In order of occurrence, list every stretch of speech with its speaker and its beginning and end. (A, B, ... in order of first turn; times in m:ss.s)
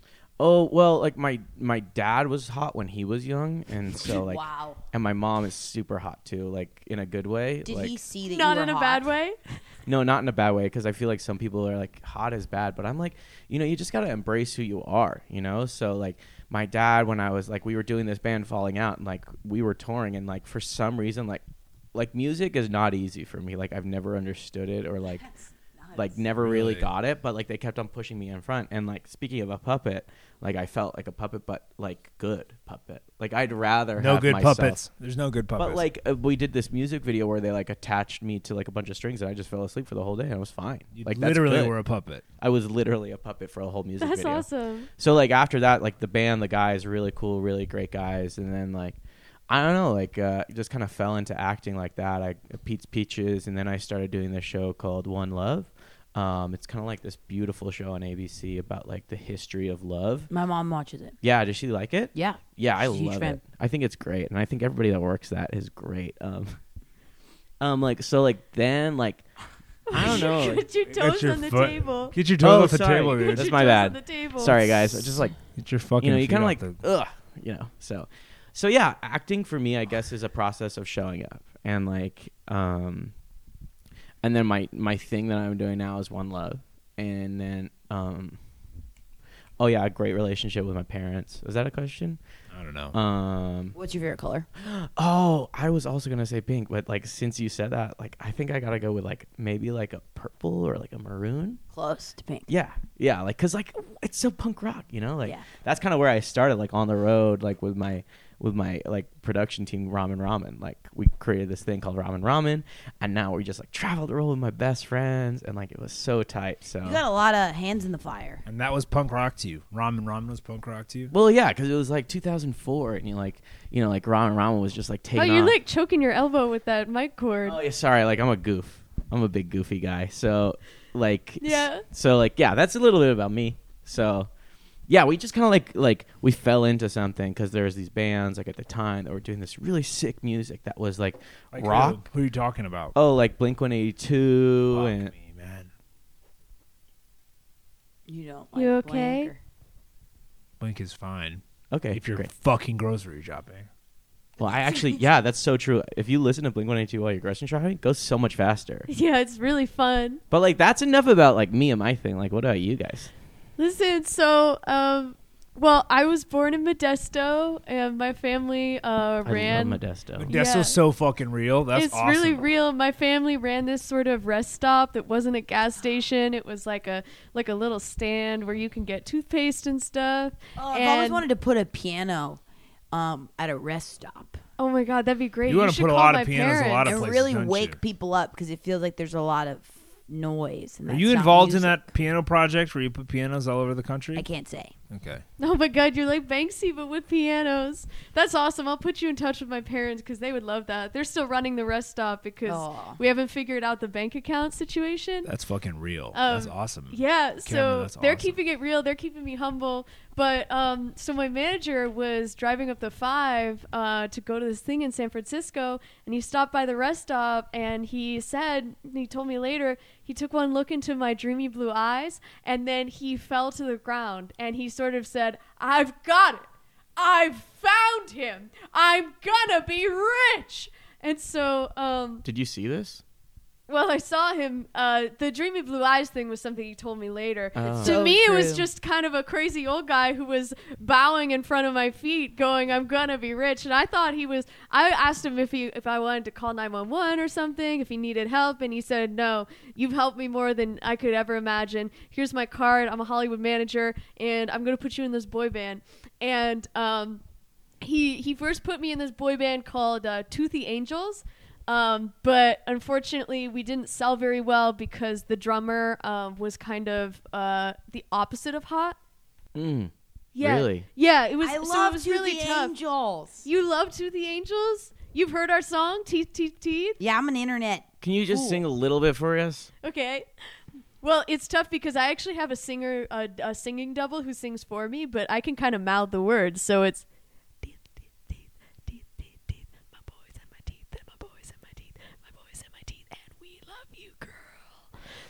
0:00.4-0:08.0 A
0:04.0-0:04.8 B
0:07.6-0:09.1 B
0:08.3-0:09.4 C
0:09.9-0:25.3 A
0:25.1-0:26.2 B
0:25.9-0:34.8 A
0:26.4-0:26.9 D
0:34.0-0:35.8 D
0:35.6-0:41.8 A
0:40.9-0:42.2 D
0:42.4-0:44.4 A
0:44.0-0:44.9 C
0:45.0-0:49.0 A
0:49.5-1:00.3 A
1:00.3-1:01.2 B
1:01.2-1:06.6 A
1:02.1-1:03.4 B
1:07.6-1:09.2 A
1:09.9-1:12.2 C
1:09.9-1:13.5 D
1:09.9-1:10.6 A
1:12.4-1:15.4 A
1:13.1-1:15.0 C
1:15.5-1:16.8 D
1:16.0-1:23.1 A
1:24.2-1:28.4 A
1:29.6-1:32.2 A
1:32.5-1:33.0 D
1:32.9-1:33.8 A
1:33.7-1:34.5 B
1:34.6-1:41.6 A
1:41.7-1:42.5 B
1:42.5-1:57.0 A
1:56.8-1:58.4 B
1:58.4-2:01.1 D
2:01.1-2:05.6 A
2:05.1-2:07.6 C
2:07.4-2:14.3 A
2:11.4-2:11.8 C
2:14.9-2:22.0 A
2:21.5-2:22.9 D
2:22.9-2:25.1 A
2:24.7-2:25.7 D
2:28.1-2:29.4 B
2:28.5-2:29.3 C
2:30.6-2:33.7 D
2:31.7-2:32.3 A
2:34.4-2:35.0 B
2:34.4-2:38.9 A
2:38.9-2:40.2 C
2:40.3-2:43.1 A
2:43.6-2:50.8 C
2:49.2-2:50.3 A
2:50.2-2:52.4 D
2:51.7-3:01.2 C
3:00.6-3:02.4 B
3:02.9-3:04.4 B
3:04.6-3:07.0 C
3:05.5-3:07.8 D
3:06.8-3:11.8 B
3:10.9-3:14.2 D
3:14.1-3:14.7 B
3:14.9-3:15.2 D
3:15.4-3:25.3 C
3:22.4-3:23.0 B
3:25.2-3:28.4 D
3:26.1-3:52.2 C
3:52.2-3:53.0 A
3:53.7-4:17.2 C
3:57.5-3:58.0 A
3:57.8-3:58.7 B
4:17.8-4:29.0 C
4:29.5-4:30.8 A
4:30.3-4:32.7 C
4:31.4-4:33.4 B
4:33.4-4:37.0 C
4:37.0-4:38.6 B
4:38.0-4:39.7 A
4:39.8-4:40.3 C
4:41.0-4:47.0 C
4:47.6-4:54.8 C